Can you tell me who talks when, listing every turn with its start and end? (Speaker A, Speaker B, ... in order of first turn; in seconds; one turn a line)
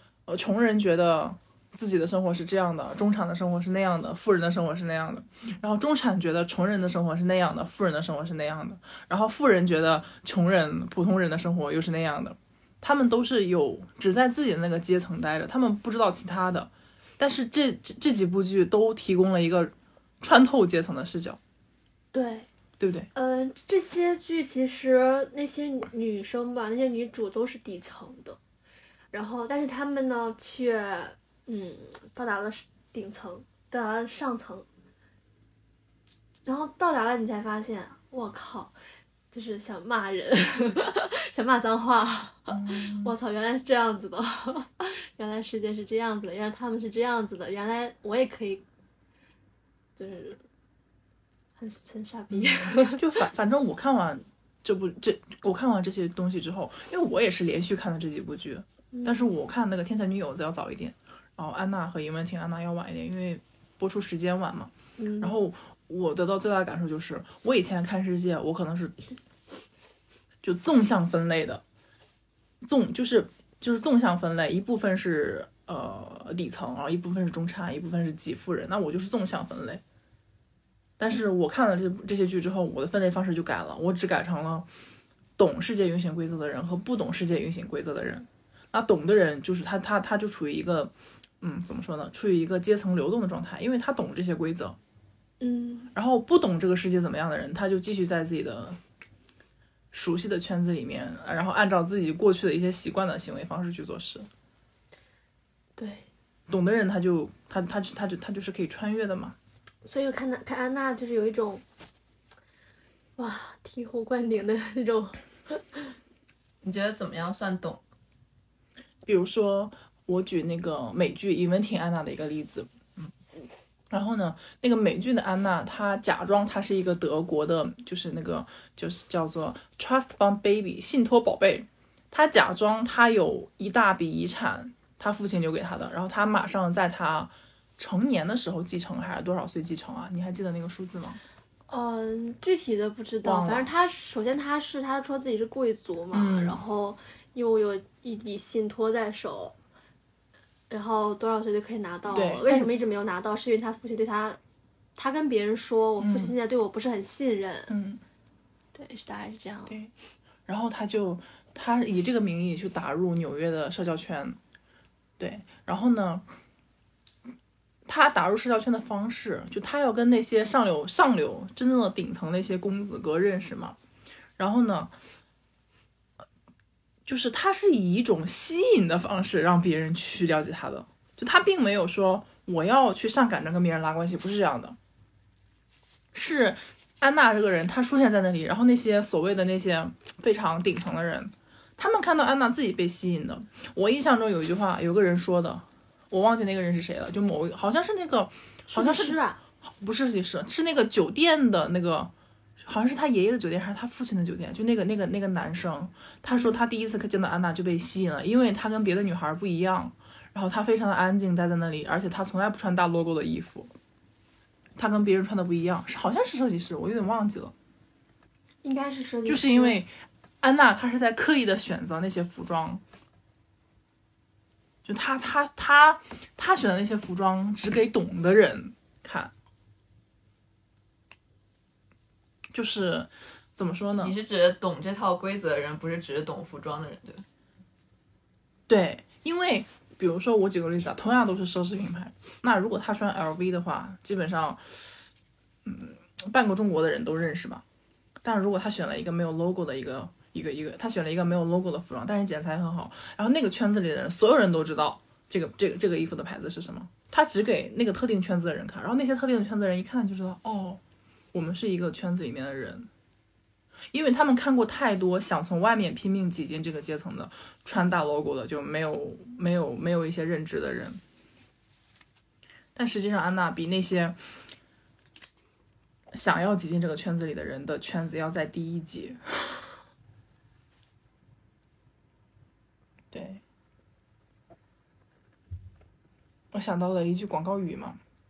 Speaker A: 0.3-21.4
Speaker B: 22.1-22.5
Speaker A: 22.8-23.1
Speaker B: 23.1-28.4
Speaker B: 29.1-34.6
Speaker B: 36.4-38.7
Speaker B: 39.3-48.6
Speaker A: 42.5-43.1
Speaker B: 50.0-50.4
Speaker B: 51.6-53.0
Speaker A: 52.3-69.0
Speaker B: 58.9-59.3
Speaker B: 65.0-65.4
Speaker A: 70.4-71.6
Speaker A: 72.6-79.8
Speaker A: 81.0-84.7
Speaker A: 85.4-94.8
Speaker B: 95.4-95.9
Speaker A: 95.9-98.8
Speaker A: 99.9-104.3
Speaker B: 105.8-106.1
Speaker A: 106.5-109.3
Speaker B: 109.8-111.6
Speaker B: 113.2-115.9
Speaker C: 116.6-117.8
Speaker A: 119.0-122.7
Speaker A: 123.9-141.2
Speaker B: 141.7-149.5
Speaker A: 143.2-143.7
Speaker A: 146.1-146.6
Speaker B: 150.7-154.4
Speaker A: 152.1-152.7
Speaker B: 155.0-157.7
Speaker A: 156.0-156.3
Speaker A: 157.7-158.0
Speaker B: 158.7-159.8
Speaker A: 160.5-164.4
Speaker A: 165.2-166.2
Speaker A: 167.8-173.8
Speaker A: 174.4-174.9
Speaker A: 177.1-184.8
Speaker A: 186.1-213.7
Speaker B: 198.7-199.4
Speaker B: 206.3-206.6
Speaker A: 214.8-217.5
Speaker B: 218.6-219.8
Speaker A: 219.2-222.8
Speaker A: 224.8-229.3
Speaker A: 232.5-234.2
Speaker C: 234.0-237.2
Speaker A: 238.7-244.8
Speaker A: 245.6-247.6
Speaker A: 248.2-260.8
Speaker A: 261.3-262.9
Speaker A: 263.9-271.0
Speaker A: 272.7-274.2
Speaker A: 276.1-279.7
Speaker A: 283.1-283.4
Speaker A: 286.5-288.0